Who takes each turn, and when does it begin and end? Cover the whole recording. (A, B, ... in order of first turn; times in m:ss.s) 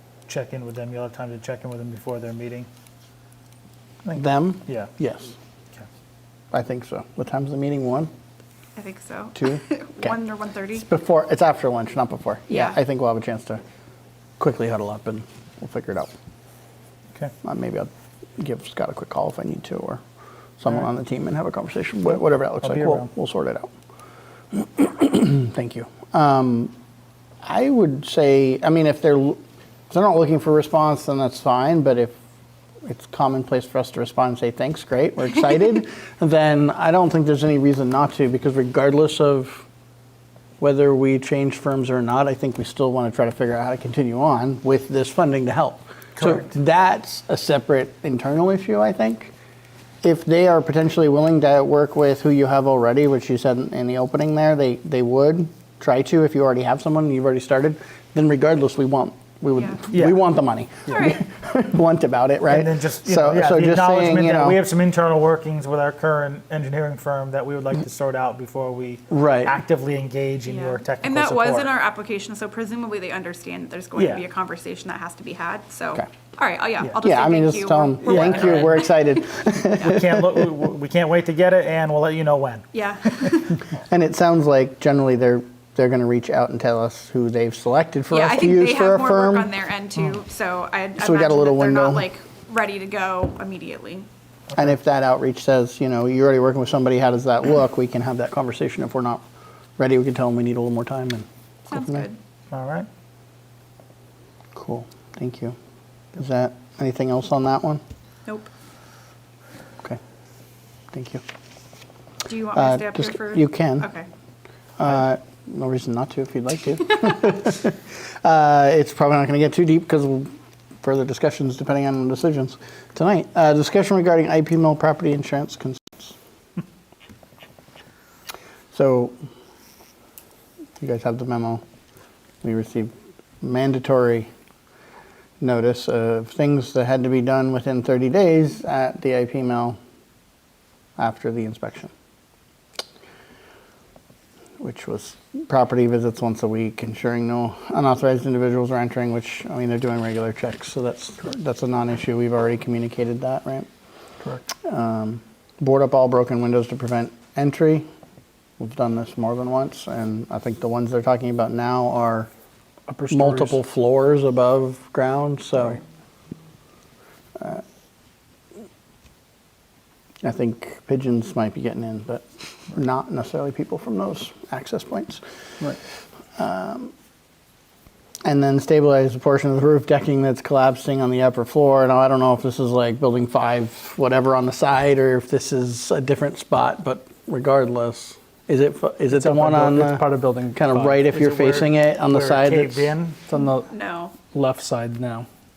0:00.3-0:02.7 A
0:04.0-0:04.9 A
0:04.2-0:05.4 B
0:06.5-0:08.1 B
0:08.8-0:10.8 C
0:09.4-0:10.2 B
0:10.7-0:13.6 B
0:12.5-0:12.8 C
0:14.4-0:16.1 B
0:17.4-0:20.0 B
0:20.6-0:23.7 B
0:22.6-0:23.1 A
0:24.5-0:26.7 B
0:27.4-0:29.4 B
0:29.9-0:32.2 B
0:32.8-0:39.6 B
0:40.6-0:49.3 B
0:46.2-0:46.5 A
0:50.0-1:04.6 B
0:59.9-1:00.2 A
1:00.9-1:01.2 C
1:02.5-1:11.7 A
1:09.1-1:09.6 B
1:10.5-1:18.9 C
1:14.0-1:14.2 A
1:17.0-1:20.4 B
1:18.0-1:18.8 A
1:19.8-1:22.7 A
1:22.7-1:23.6 C
1:23.9-1:29.5 B
1:28.1-1:34.1 C
1:31.0-1:32.1 B
1:34.6-1:39.2 B
1:39.8-1:42.1 B
1:41.7-1:42.2 C
1:42.5-1:42.9 A
1:44.5-1:45.6 B
1:46.2-1:47.8 B
1:50.9-1:51.2 B
1:52.3-1:54.1 C
1:52.5-1:53.9 B
1:54.8-2:00.3 B
2:00.8-2:06.2 B
2:08.7-2:09.2 B
2:10.8-2:11.6 B
2:12.4-2:14.3 B
2:15.4-2:19.8 B
2:21.0-2:21.9 B
2:24.6-2:33.7 B
2:34.6-2:37.8 B
2:38.6-2:42.3 B
2:42.9-2:43.6 D
2:43.1-2:45.8 B
2:47.4-2:47.6 B
2:50.2-2:55.2 B
2:56.4-2:56.9 B
2:58.2-3:12.9 B
3:09.1-3:11.1 D
3:11.1-3:13.2 A
3:13.3-3:13.7 D
3:13.3-3:14.2 C
3:14.2-3:15.3 D